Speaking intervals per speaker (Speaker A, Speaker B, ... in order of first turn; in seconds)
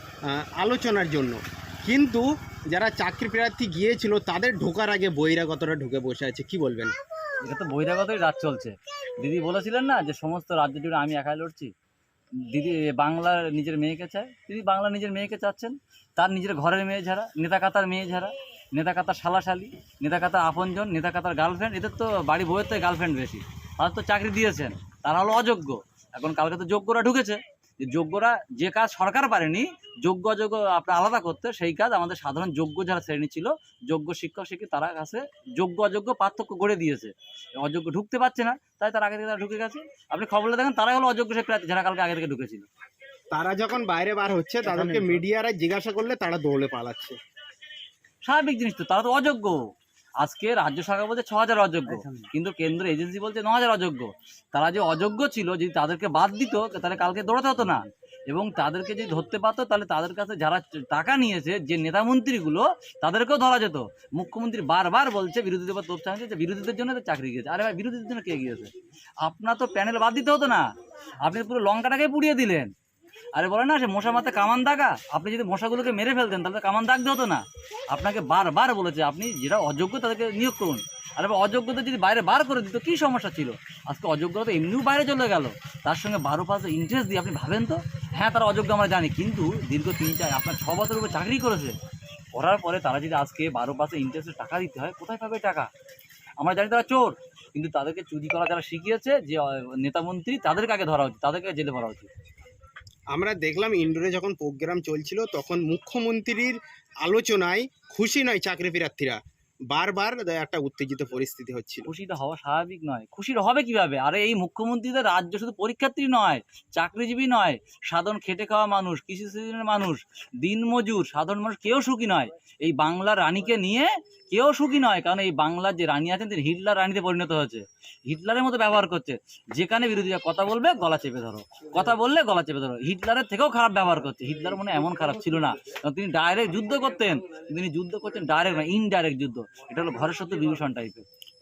Speaker A: 0.3-6.9, 43.3-47.2, 103.1-109.2, 109.7-111.9
Speaker B: 7.5-11.7, 12.5-42.7, 44.7-45.1, 48.2-49.6, 50.2-68.7, 69.2-70.7, 71.2-72.7, 73.3-91.7, 92.3-95.7, 96.4-102.1, 111.9-141.0